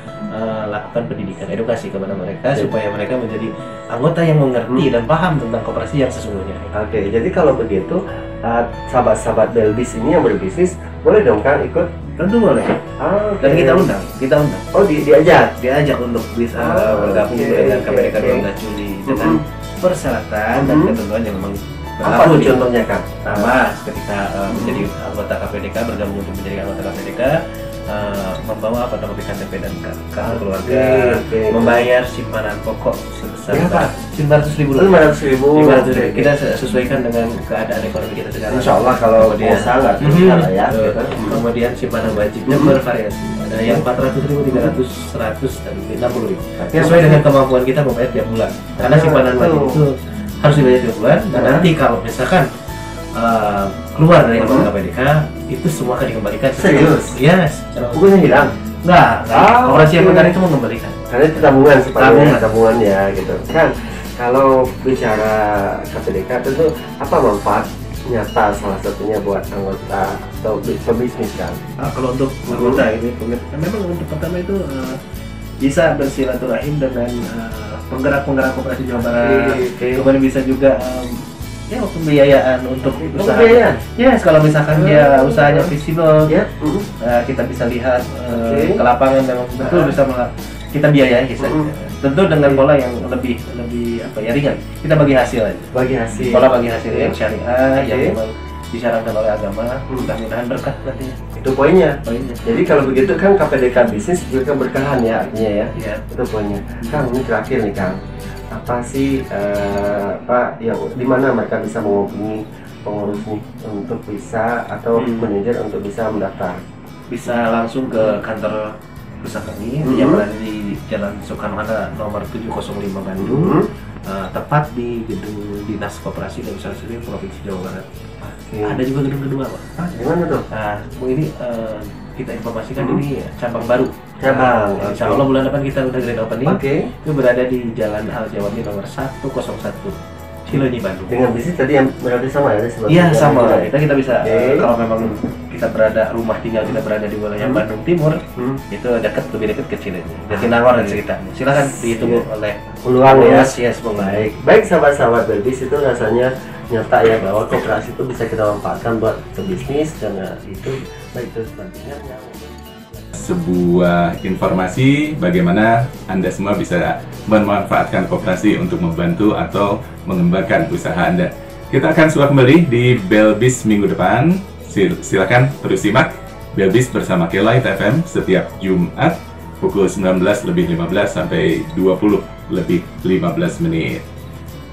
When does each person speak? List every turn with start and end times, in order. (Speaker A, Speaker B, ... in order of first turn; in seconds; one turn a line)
Speaker A: 0.3-6.7
Speaker B: 6.7-11.9
Speaker A: 12.2-12.8
Speaker B: 13.0-13.9
Speaker A: 13.4-14.6
Speaker B: 14.7-15.5
Speaker A: 15.2-22.6
Speaker B: 16.6-18.4
Speaker B: 19.1-19.4
Speaker B: 20.5-20.9
Speaker B: 22.0-23.5
Speaker A: 23.2-27.4
Speaker B: 24.5-24.9
Speaker A: 27.9-52.5
Speaker B: 30.2-31.9
Speaker B: 33.5-33.9
Speaker B: 34.7-36.3
Speaker B: 38.5-41.4
Speaker B: 42.5-42.8
Speaker B: 44.5-44.8
Speaker B: 46.6-47.2
Speaker B: 48.8-49.8
Speaker B: 51.3-51.6
Speaker A: 53.1-62.5
Speaker B: 54.4-54.7
Speaker B: 56.5-57.2
Speaker B: 57.9-58.5
Speaker B: 59.3-60.3
Speaker B: 61.1-71.6
Speaker A: 71.8-75.0
Speaker B: 72.5-72.8
Speaker A: 75.6-86.3
Speaker B: 79.0-80.1
Speaker B: 82.9-83.8
Speaker B: 84.7-85.7
Speaker B: 86.3-86.9
Speaker A: 87.0-95.7
Speaker B: 88.3-88.8
Speaker B: 89.6-90.0
Speaker B: 91.4-91.7
Speaker B: 95.7-97.1
Speaker A: 96.3-101.2
Speaker B: 97.8-98.2
Speaker B: 101.3-108.0
Speaker A: 102.0-102.4
Speaker A: 105.7-106.0
Speaker B: 108.5-116.6
Speaker A: 115.0-115.3
Speaker A: 117.1-127.9
Speaker B: 117.9-118.2
Speaker B: 119.8-120.2
Speaker B: 123.2-123.7
Speaker B: 128.2-128.8
Speaker A: 128.6-129.6
Speaker B: 129.8-130.4
Speaker A: 130.5-141.2
Speaker B: 134.2-135.2
Speaker B: 136.4-136.9
Speaker B: 140.5-143.7
Speaker A: 142.9-154.3
Speaker B: 144.2-144.7
Speaker B: 148.3-148.6
Speaker B: 150.3-151.0
Speaker B: 151.6-152.2
Speaker B: 152.8-163.1
Speaker C: 163.1-184.0